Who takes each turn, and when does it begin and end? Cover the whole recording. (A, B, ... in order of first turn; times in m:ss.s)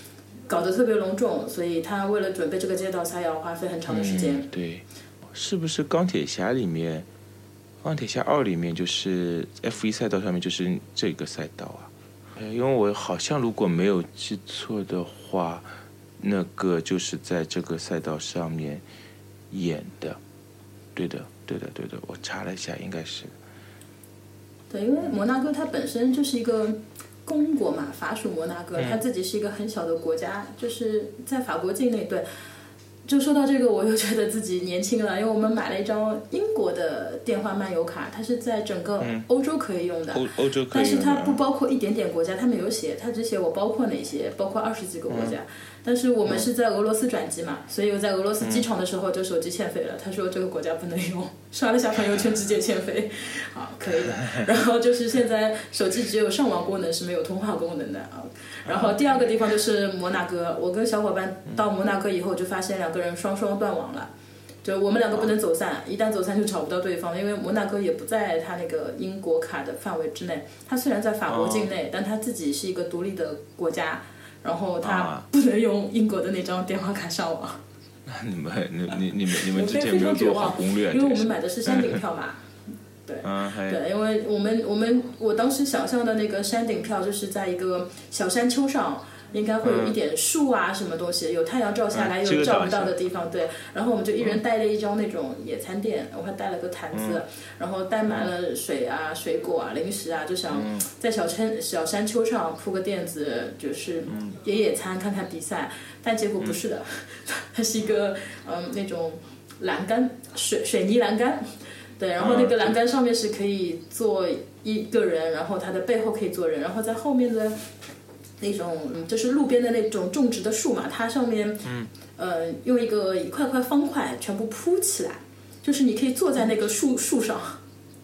0:00.5-0:04.5 A
0:03.9-0:07.1 B
0:07.8-0:15.7 B
0:16.2-0:18.8 B
0:19.5-0:20.2 B
0:20.9-0:23.3 B
0:24.7-0:32.2 A
0:28.8-0:29.0 B
0:33.0-1:04.1 A
0:39.0-0:39.2 B
0:40.1-0:41.4 B
0:45.1-0:45.4 B
0:48.4-0:48.7 B
0:58.6-0:59.0 B
1:04.6-1:17.6 A
1:11.3-1:11.7 B
1:14.8-1:15.3 B
1:18.0-1:22.0 B
1:19.3-1:22.4 A
1:23.0-1:57.6 A
1:23.2-1:23.8 B
1:29.6-1:30.0 B
1:31.9-1:33.0 B
1:36.9-1:37.2 B
1:40.5-1:40.9 B
1:52.2-1:52.7 B
1:58.4-2:07.6 A
2:01.6-2:01.9 B